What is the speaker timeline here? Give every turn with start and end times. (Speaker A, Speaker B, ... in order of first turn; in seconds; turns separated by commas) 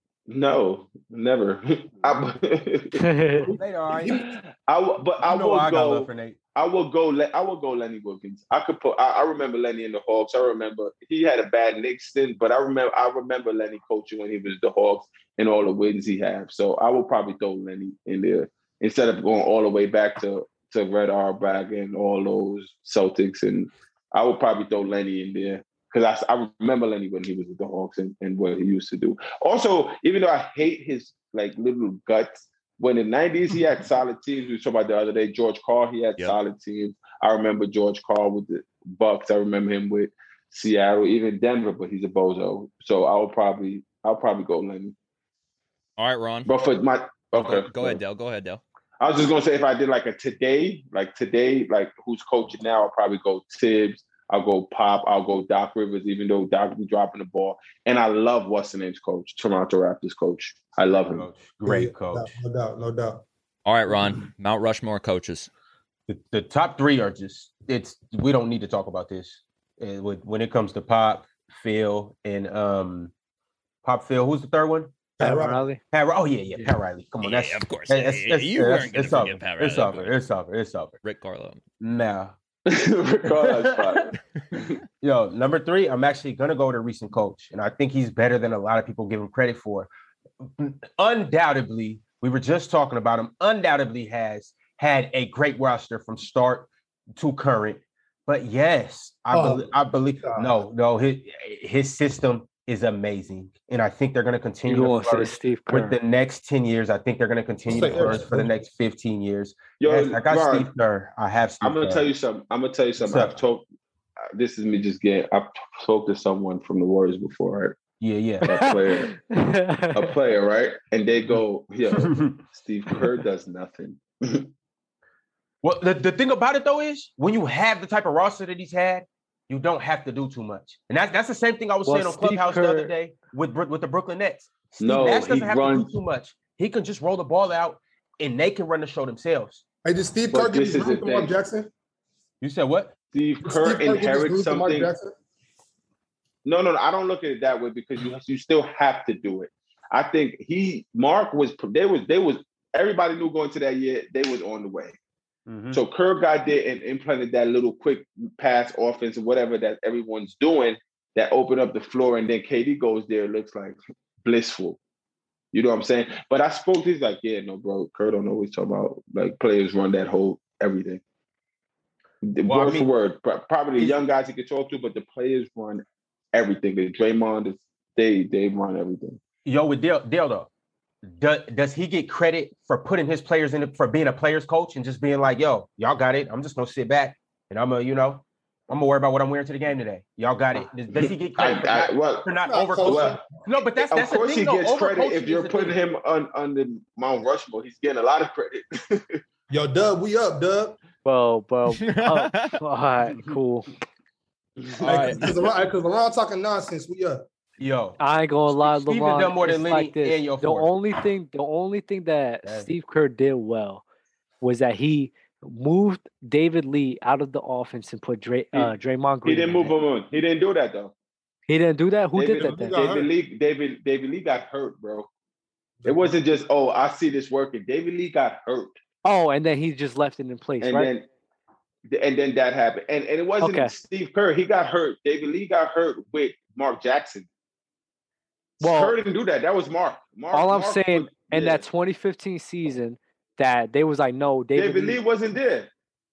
Speaker A: 0.3-3.0, Speaker B: 2.9-3.5, Speaker C: 3.4-4.2, Speaker D: 3.4-4.2, Speaker A: 4.1-45.0, Speaker D: 5.2-6.4, Speaker E: 46.0-46.5, Speaker A: 46.5-48.0, Speaker E: 47.4-48.6, Speaker A: 49.0-61.3, Speaker D: 61.1-62.3, Speaker C: 61.6-63.2, Speaker E: 63.6-65.5, Speaker D: 66.1-73.1, Speaker D: 73.8-74.9, Speaker C: 75.2-75.6, Speaker B: 75.2-75.8, Speaker D: 75.9-81.0, Speaker E: 77.2-80.1, Speaker E: 81.0-81.6, Speaker D: 81.8-82.3, Speaker A: 82.7-84.2, Speaker D: 83.3-84.0, Speaker D: 85.0-89.9, Speaker D: 90.4-112.1, Speaker C: 99.3-100.6, Speaker B: 104.7-106.0, Speaker C: 107.7-108.5, Speaker A: 109.8-110.7, Speaker A: 111.6-113.7, Speaker D: 113.0-113.4, Speaker A: 114.3-117.9, Speaker D: 118.0-118.7, Speaker A: 118.5-119.1, Speaker B: 118.5-120.1, Speaker A: 120.0-124.5, Speaker D: 121.9-122.4, Speaker D: 125.6-139.6, Speaker B: 131.8-132.9, Speaker A: 134.8-135.9, Speaker C: 139.8-141.7, Speaker A: 140.3-141.3, Speaker D: 142.4-143.0, Speaker A: 143.1-144.9, Speaker C: 143.4-145.1, Speaker A: 146.4-154.9, Speaker D: 155.5-155.8, Speaker A: 155.7-164.8, Speaker A: 165.5-171.0, Speaker A: 172.2-179.2, Speaker D: 172.5-172.9, Speaker D: 179.4-180.5, Speaker D: 181.0-195.8, Speaker A: 190.9-192.3, Speaker C: 192.5-193.4, Speaker A: 192.8-199.2, Speaker C: 199.5-200.8, Speaker B: 201.1-203.7, Speaker E: 201.7-202.6, Speaker D: 203.1-203.4, Speaker E: 204.8-205.2, Speaker C: 204.8-207.2, Speaker D: 207.6-210.7, Speaker B: 208.0-213.8, Speaker B: 214.4-219.8, Speaker A: 219.2-220.9, Speaker B: 221.5-222.8, Speaker A: 222.2-225.1, Speaker C: 222.4-223.1, Speaker C: 225.8-226.1, Speaker A: 225.8-228.8, Speaker B: 229.0-230.9, Speaker A: 230.6-231.1, Speaker A: 231.9-237.3, Speaker B: 233.4-233.7, Speaker A: 238.6-241.6, Speaker B: 238.6-238.9, Speaker B: 240.3-245.0, Speaker A: 244.6-245.7